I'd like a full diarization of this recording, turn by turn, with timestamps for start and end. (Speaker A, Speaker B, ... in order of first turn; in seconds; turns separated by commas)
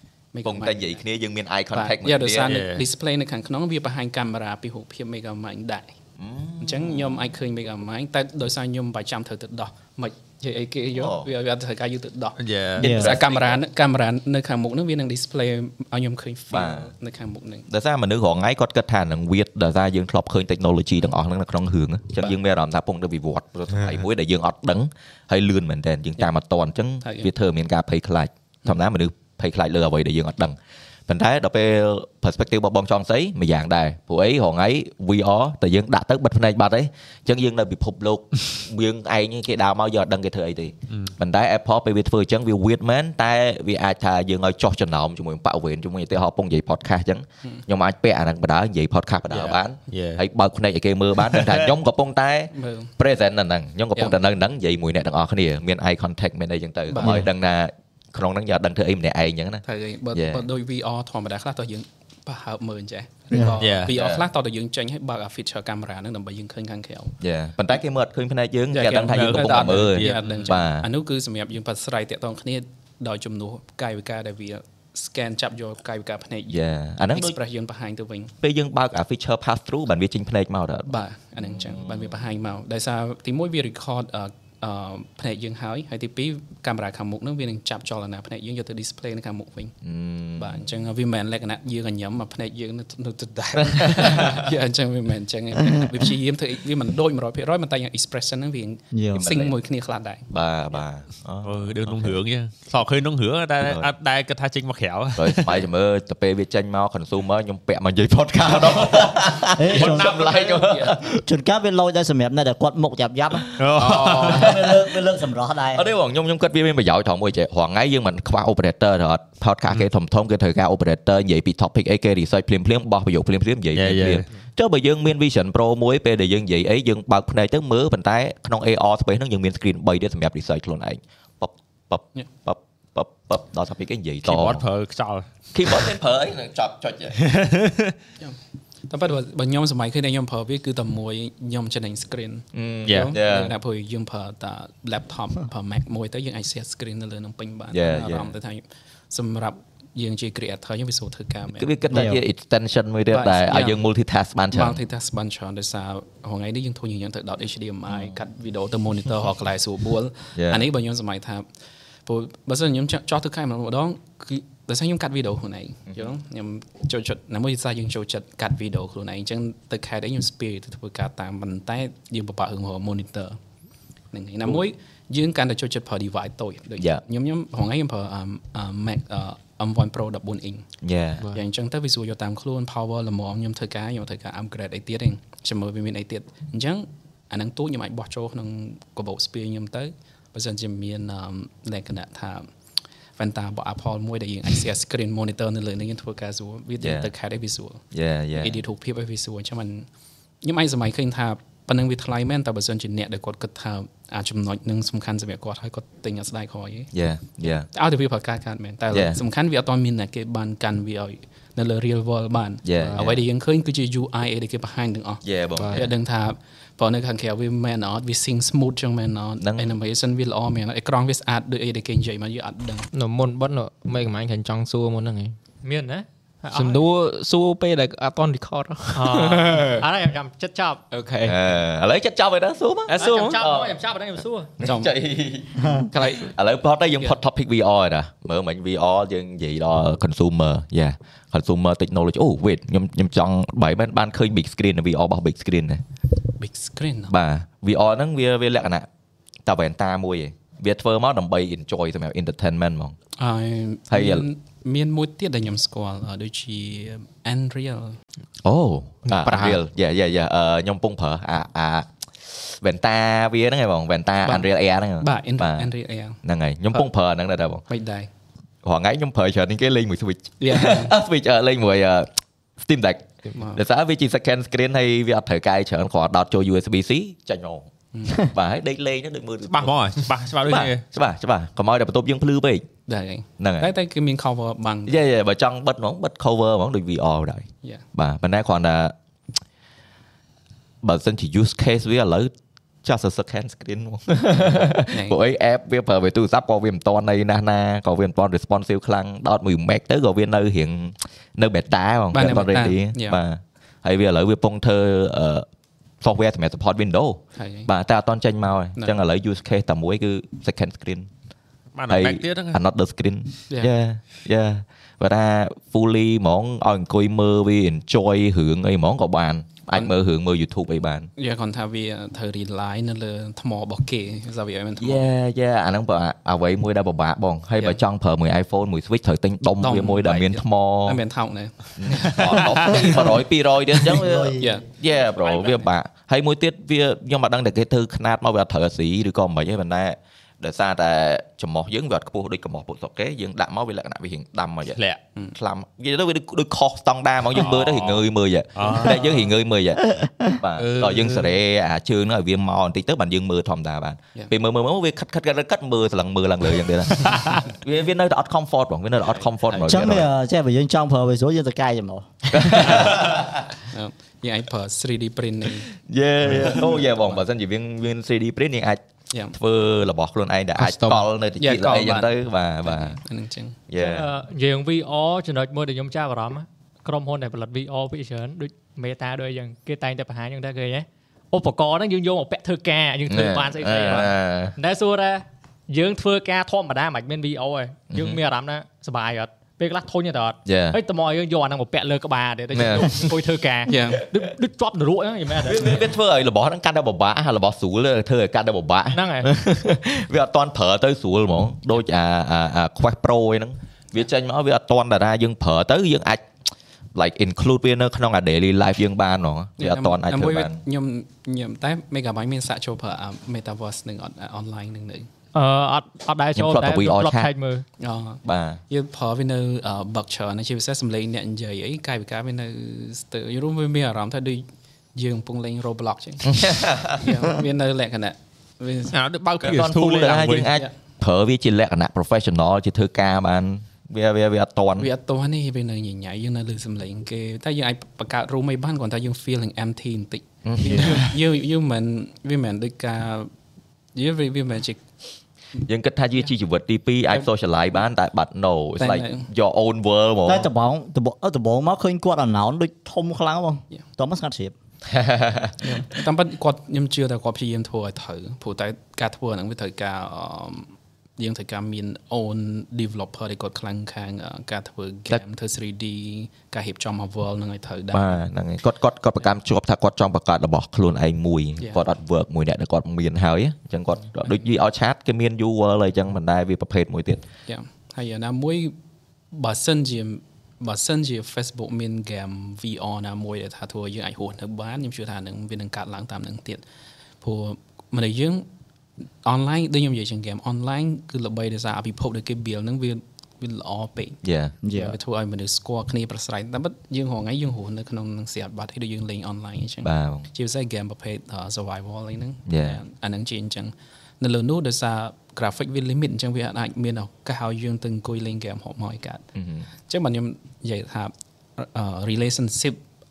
Speaker A: 0.3-1.0, Speaker B: 0.4-2.5, Speaker A: 1.7-5.9, Speaker C: 2.5-2.8, Speaker B: 6.2-7.3, Speaker A: 6.6-17.7, Speaker B: 10.9-11.3, Speaker C: 12.4-12.9, Speaker D: 12.8-13.2, Speaker B: 12.8-13.6, Speaker B: 16.5-16.9, Speaker B: 17.7-59.6, Speaker A: 27.0-27.3, Speaker C: 40.9-41.1, Speaker C: 49.3-50.2, Speaker C: 51.2-51.8, Speaker A: 52.5-52.9, Speaker A: 56.9-57.2, Speaker A: 59.6-67.2, Speaker B: 60.1-60.4, Speaker C: 63.6-63.9, Speaker B: 63.9-64.2, Speaker B: 67.2-70.9, Speaker A: 68.7-76.6, Speaker C: 69.1-70.5, Speaker B: 76.5-77.4, Speaker A: 77.1-78.3, Speaker B: 78.4-82.1, Speaker A: 80.9-89.8, Speaker B: 89.8-90.6, Speaker A: 90.4-100.3, Speaker B: 93.6-94.5, Speaker D: 98.9-99.2, Speaker B: 99.1-99.6, Speaker B: 100.3-102.2, Speaker C: 101.4-105.6, Speaker B: 103.6-103.9, Speaker B: 105.2-111.2, Speaker D: 109.5-110.2, Speaker A: 109.7-111.0, Speaker D: 111.0-115.9, Speaker B: 113.4-114.9, Speaker C: 113.6-114.6, Speaker A: 113.8-114.3, Speaker B: 115.7-134.6, Speaker C: 123.7-124.2, Speaker C: 134.2-135.2, Speaker B: 135.5-137.2, Speaker C: 137.2-137.9, Speaker A: 138.2-151.8, Speaker B: 142.5-143.5, Speaker C: 142.9-143.1, Speaker B: 147.7-148.3, Speaker B: 151.5-154.8, Speaker D: 151.9-152.2, Speaker A: 153.1-153.8, Speaker A: 154.5-161.4, Speaker B: 160.3-160.7, Speaker A: 162.1-173.4, Speaker A: 174.1-180.7, Speaker B: 180.8-181.2, Speaker A: 181.3-192.5, Speaker A: 193.2-197.8, Speaker B: 196.8-197.1, Speaker B: 197.9-198.6, Speaker A: 198.4-199.9, Speaker A: 200.4-206.9, Speaker B: 206.9-207.7, Speaker A: 207.7-222.9, Speaker B: 208.9-209.2, Speaker B: 212.6-213.2, Speaker B: 215.2-215.9, Speaker E: 215.6-215.8, Speaker B: 219.4-219.7, Speaker E: 222.9-225.3, Speaker F: 225.6-226.8, Speaker E: 226.5-229.8, Speaker F: 228.9-230.8, Speaker A: 230.9-231.3, Speaker B: 231.2-233.8, Speaker A: 232.9-233.4, Speaker F: 232.9-234.5, Speaker B: 234.6-245.8, Speaker A: 234.6-234.9, Speaker A: 235.9-236.3, Speaker A: 246.4-247.1, Speaker B: 247.1-248.9, Speaker B: 249.4-252.9, Speaker A: 253.2-258.0, Speaker B: 253.9-254.2, Speaker B: 258.4-265.7, Speaker E: 259.1-259.6, Speaker A: 265.0-266.2, Speaker B: 266.2-267.6, Speaker A: 267.7-268.1, Speaker B: 268.6-272.1, Speaker A: 270.4-270.9, Speaker B: 272.6-279.8, Speaker A: 273.3-273.6, Speaker A: 277.9-278.2, Speaker C: 279.5-280.8, Speaker B: 280.4-282.6, Speaker A: 282.9-284.9, Speaker B: 283.4-283.7, Speaker B: 284.9-288.9, Speaker B: 290.8-292.3, Speaker B: 292.8-305.4, Speaker A: 294.9-295.2, Speaker A: 302.1-303.2, Speaker B: 306.0-311.1, Speaker A: 307.3-307.7, Speaker C: 311.7-312.6, Speaker B: 311.9-321.1, Speaker A: 321.2-325.0, Speaker B: 324.8-331.0, Speaker A: 329.6-333.1, Speaker B: 331.8-344.8, Speaker D: 333.8-334.5, Speaker A: 334.4-334.6, Speaker C: 344.7-345.0, Speaker B: 345.3-360.1, Speaker C: 347.3-349.3, Speaker D: 349.8-350.4, Speaker C: 350.6-351.3, Speaker A: 359.5-359.8, Speaker D: 359.6-362.7, Speaker B: 362.3-363.5, Speaker A: 363.7-365.7, Speaker B: 365.8-368.8, Speaker A: 366.4-367.2, Speaker A: 369.1-369.4, Speaker B: 369.3-373.0, Speaker E: 370.6-371.0, Speaker A: 371.4-372.1, Speaker A: 372.6-373.6, Speaker B: 373.7-374.1, Speaker F: 373.8-395.9, Speaker B: 383.1-384.5, Speaker B: 387.9-388.2, Speaker B: 390.4-390.8, Speaker B: 392.5-393.1, Speaker A: 393.7-394.0, Speaker B: 395.4-406.3, Speaker F: 398.9-399.3, Speaker B: 406.9-410.6, Speaker A: 409.6-415.1, Speaker F: 415.3-417.6, Speaker B: 416.3-417.3, Speaker A: 417.8-428.9, Speaker B: 418.2-418.6, Speaker B: 426.3-427.1, Speaker C: 428.9-430.5, Speaker B: 429.4-434.9, Speaker A: 434.8-443.3, Speaker B: 440.4-441.1, Speaker D: 440.6-441.0, Speaker A: 443.9-444.8, Speaker B: 445.6-450.5, Speaker A: 448.8-449.3, Speaker D: 450.2-454.5, Speaker B: 454.9-455.6, Speaker A: 455.6-468.2, Speaker B: 467.9-477.2, Speaker A: 477.5-478.7, Speaker A: 479.3-486.6, Speaker A: 487.2-488.4, Speaker A: 489.2-509.2, Speaker B: 494.2-494.6, Speaker D: 494.6-495.0, Speaker B: 499.8-500.3, Speaker B: 502.5-502.8, Speaker B: 509.4-509.6, Speaker A: 509.9-512.8